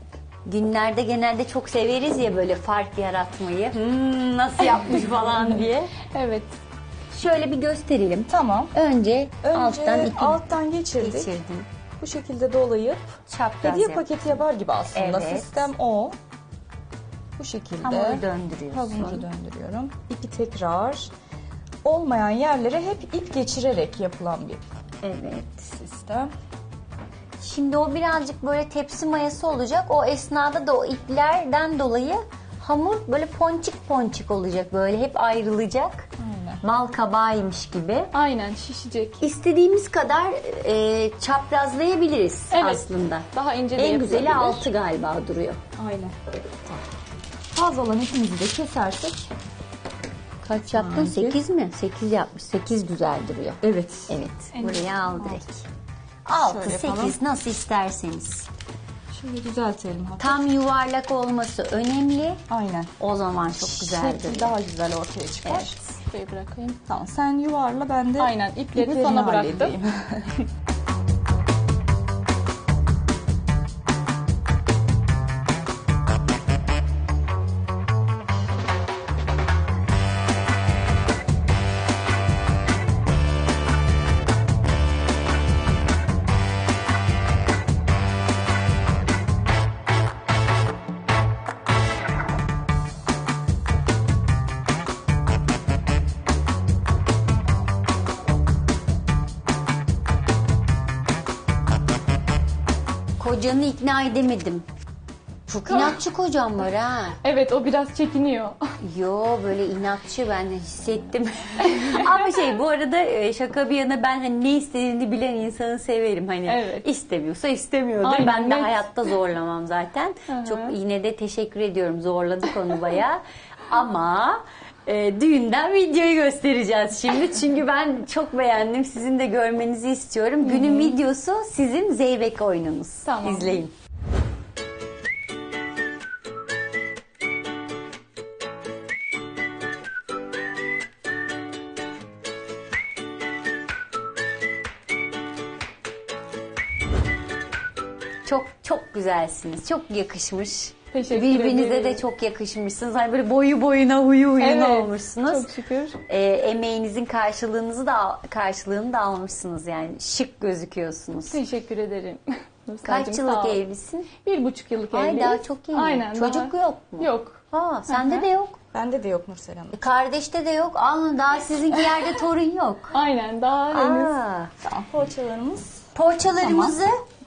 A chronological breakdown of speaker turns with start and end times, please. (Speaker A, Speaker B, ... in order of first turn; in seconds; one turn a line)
Speaker A: 0.5-5.9
Speaker B: 6.1-6.5
Speaker A: 7.1-11.7
Speaker C: 8.3-8.7
Speaker C: 9.4-11.3
Speaker C: 12.0-16.1
Speaker A: 13.3-14.2
Speaker A: 14.9-15.7
Speaker C: 17.4-21.1
Speaker A: 17.8-19.3
Speaker C: 21.8-24.6
Speaker A: 25.0-25.7
Speaker C: 25.8-26.3
Speaker A: 27.4-36.1
Speaker C: 36.2-36.6
Speaker A: 36.6-38.1
Speaker B: 38.1-39.2
Speaker A: 39.2-45.6
Speaker B: 42.5-44.7
Speaker C: 45.8-46.1
Speaker C: 47.5-49.3
Speaker A: 50.4-55.6
Speaker C: 50.7-51.4
Speaker C: 53.6-54.1
Speaker B: 54.5-54.9
Speaker C: 55.2-55.4
Speaker A: 56.2-58.5
Speaker C: 56.4-57.2
Speaker C: 59.1-60.4
Speaker A: 60.2-62.4
Speaker C: 62.5-62.9
Speaker A: 63.0-64.5
Speaker C: 63.6-65.8
Speaker A: 65.4-65.9
Speaker B: 66.0-66.8
Speaker C: 66.9-70.5
Speaker B: 68.2-69.8
Speaker A: 103.2-104.6
Speaker A: 105.5-107.2
Speaker B: 105.7-106.0
Speaker B: 107.2-108.6
Speaker A: 108.8-133.7
Speaker B: 111.6-112.2
Speaker B: 116.5-116.8
Speaker B: 118.0-118.8
Speaker B: 120.3-120.8
Speaker B: 130.4-131.0
Speaker B: 133.0-133.6
Speaker A: 148.2-155.5
Speaker B: 150.9-152.0
Speaker B: 154.4-156.0
Speaker A: 156.1-161.4
Speaker B: 161.3-163.6
Speaker A: 162.8-164.1
Speaker B: 164.2-168.2
Speaker A: 164.9-168.6
Speaker C: 168.7-169.8
Speaker A: 169.7-172.9
Speaker B: 172.9-174.2
Speaker A: 173.7-174.5
Speaker C: 174.6-175.8
Speaker A: 175.9-177.0
Speaker C: 176.4-176.8